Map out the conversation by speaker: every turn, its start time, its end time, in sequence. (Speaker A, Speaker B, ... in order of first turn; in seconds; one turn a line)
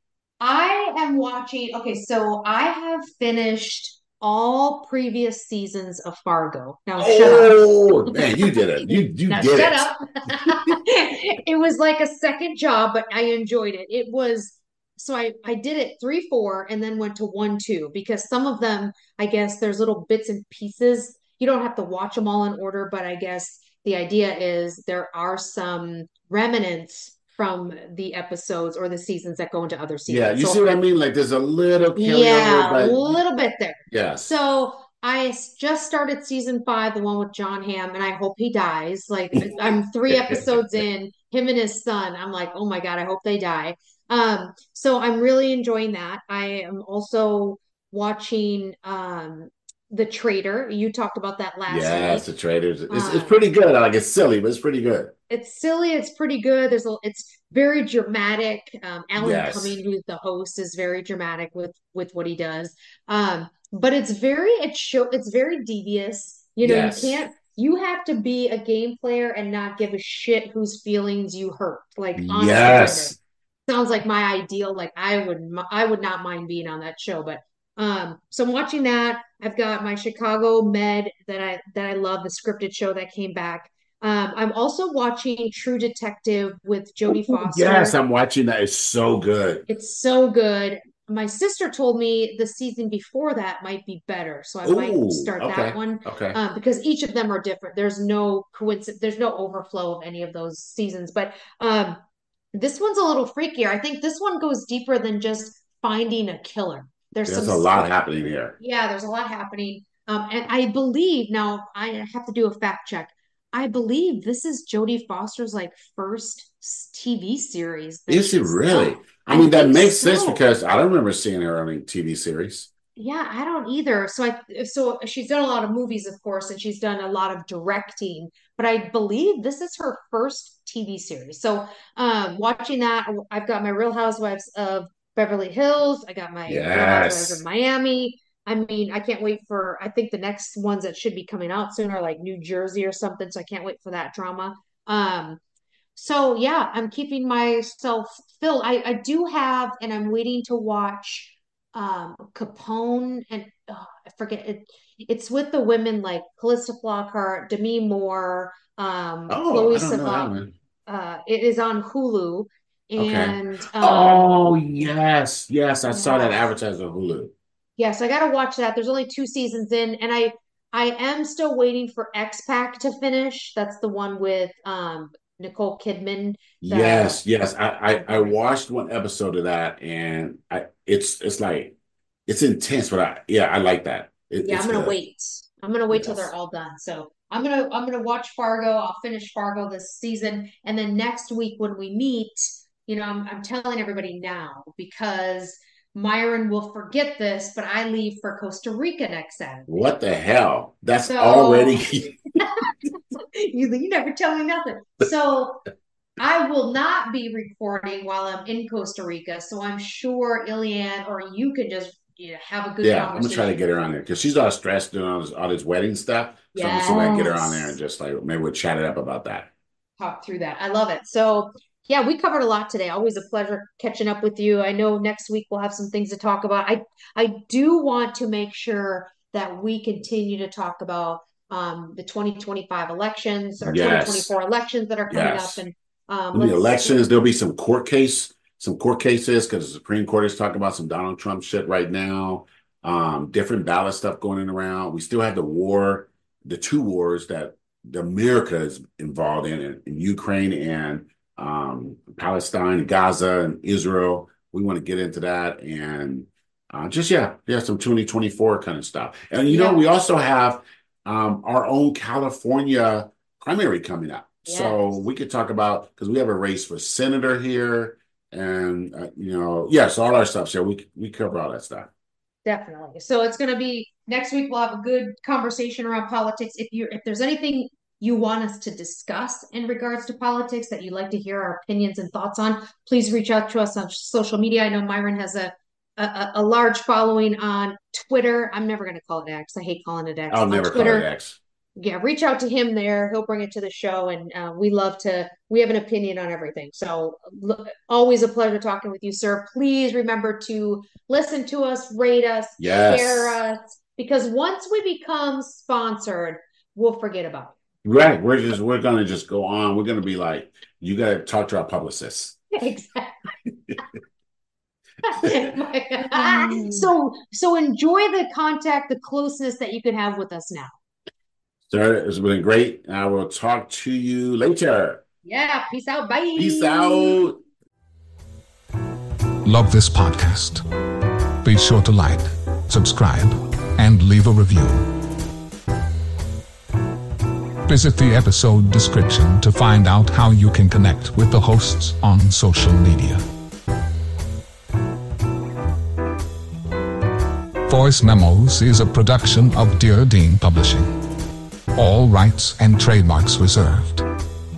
Speaker A: 0.4-7.6
Speaker B: 7.0-9.9
Speaker A: 8.1-30.6
Speaker B: 30.1-33.2
Speaker A: 31.9-52.3
Speaker B: 33.9-34.3
Speaker B: 39.4-40.8
Speaker B: 51.7-55.1
Speaker A: 52.9-53.4
Speaker A: 55.3-73.2
Speaker B: 59.2-59.8
Speaker B: 66.6-67.2
Speaker B: 72.2-73.2
Speaker A: 73.7-88.0
Speaker B: 87.1-89.7
Speaker A: 89.7-102.0
Speaker B: 94.6-96.4
Speaker A: 102.5-107.9
Speaker B: 107.3-108.6
Speaker A: 108.6-120.4
Speaker B: 118.1-122.7
Speaker A: 123.0-145.4
Speaker B: 136.5-137.4
Speaker A: 146.0-164.3
Speaker B: 159.3-160.5
Speaker B: 163.0-167.3
Speaker A: 165.9-166.5
Speaker A: 167.8-177.2
Speaker B: 176.6-181.8
Speaker A: 177.9-178.4
Speaker B: 182.3-185.0
Speaker A: 184.4-199.9
Speaker B: 185.9-186.3
Speaker B: 199.7-202.2
Speaker A: 201.1-201.9
Speaker A: 202.4-205.6
Speaker A: 206.2-213.6
Speaker B: 212.8-219.5
Speaker A: 216.5-217.8
Speaker A: 220.0-236.9
Speaker B: 233.6-234.3
Speaker B: 235.1-235.6
Speaker B: 236.3-271.9
Speaker A: 259.5-259.9
Speaker A: 264.4-264.8
Speaker A: 272.4-291.1
Speaker B: 290.3-291.4
Speaker A: 291.8-307.6
Speaker B: 302.6-303.4
Speaker B: 307.8-312.4
Speaker A: 312.5-313.3
Speaker A: 315.1-320.8
Speaker B: 316.1-316.9
Speaker B: 321.7-325.0
Speaker A: 325.2-327.2
Speaker B: 326.4-327.4
Speaker C: 329.4-330.6
Speaker C: 331.4-334.9
Speaker C: 337.7-343.2
Speaker C: 347.7-351.0
Speaker C: 351.8-354.1